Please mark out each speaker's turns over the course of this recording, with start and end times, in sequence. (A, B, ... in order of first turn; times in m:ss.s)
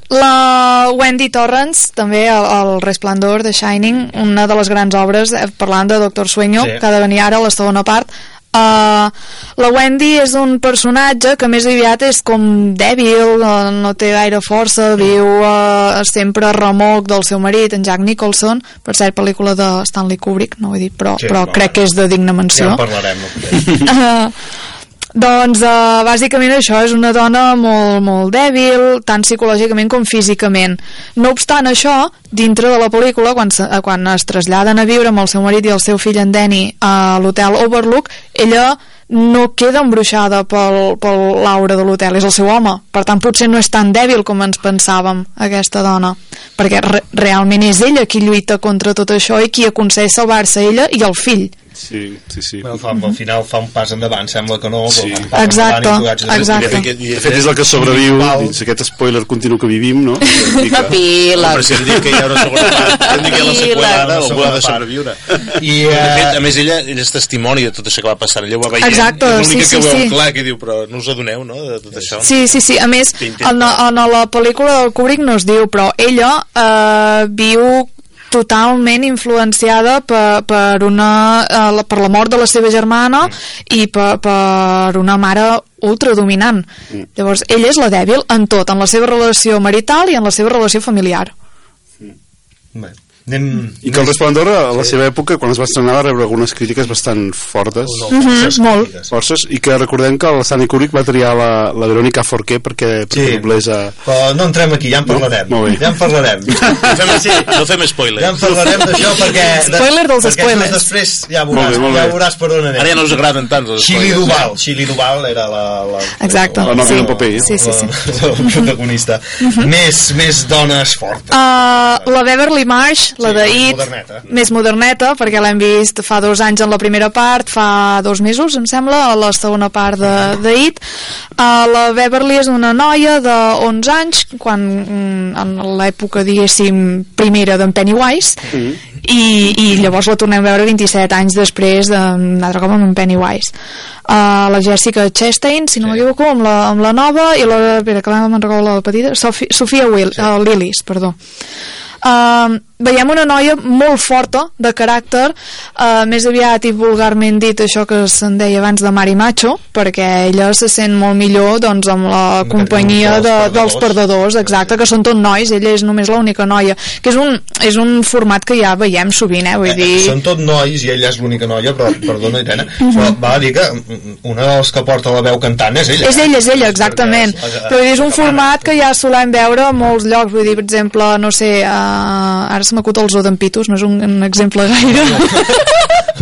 0:00.1-0:22.8 A
0:06.6-0:06.8 B
0:21.2-0:21.8 B
0:22.5-0:23.8 B
0:23.8-0:24.3 A
0:25.1-0:51.5 A
0:51.8-0:52.7 C
0:52.6-0:58.6 B
0:54.9-0:55.3 C
0:55.4-0:56.9 A
0:56.5-0:57.5 D
0:57.0-1:01.0 C
1:00.7-1:01.9 E
1:01.4-1:05.2 D
1:01.6-1:02.9 C
1:02.7-1:04.1 E
1:03.3-1:04.9 B
1:05.5-1:06.4 B
1:05.9-1:12.6 D
1:08.8-1:10.1 A
1:12.2-1:31.3 A
1:13.2-1:13.8 D
1:32.7-1:34.9 B
1:33.8-1:38.0 C
1:37.8-1:39.1 B
1:38.1-1:38.9 A
1:39.1-1:43.9 C
1:43.1-1:43.5 B
1:44.0-1:47.6 B
1:45.1-1:45.8 C
1:46.6-1:46.9 C
1:46.9-1:49.0 D
1:48.1-1:53.0 B
1:49.7-1:50.9 A
1:51.5-1:52.2 C
1:52.7-1:54.5 D
1:53.8-2:02.1 B
1:56.2-1:57.9 A
1:56.6-1:57.5 C
1:59.4-1:59.7 A
2:01.3-2:10.8 A
2:03.2-2:04.2 B
2:11.4-2:18.4 A
2:18.5-2:18.8 C
2:19.0-2:23.5 A
2:24.1-2:31.2 A
2:32.0-2:50.2 A
2:42.4-2:44.8 B
2:49.6-2:58.7 B
2:52.8-2:53.1 A
2:56.0-3:05.8 A
3:04.9-3:05.4 B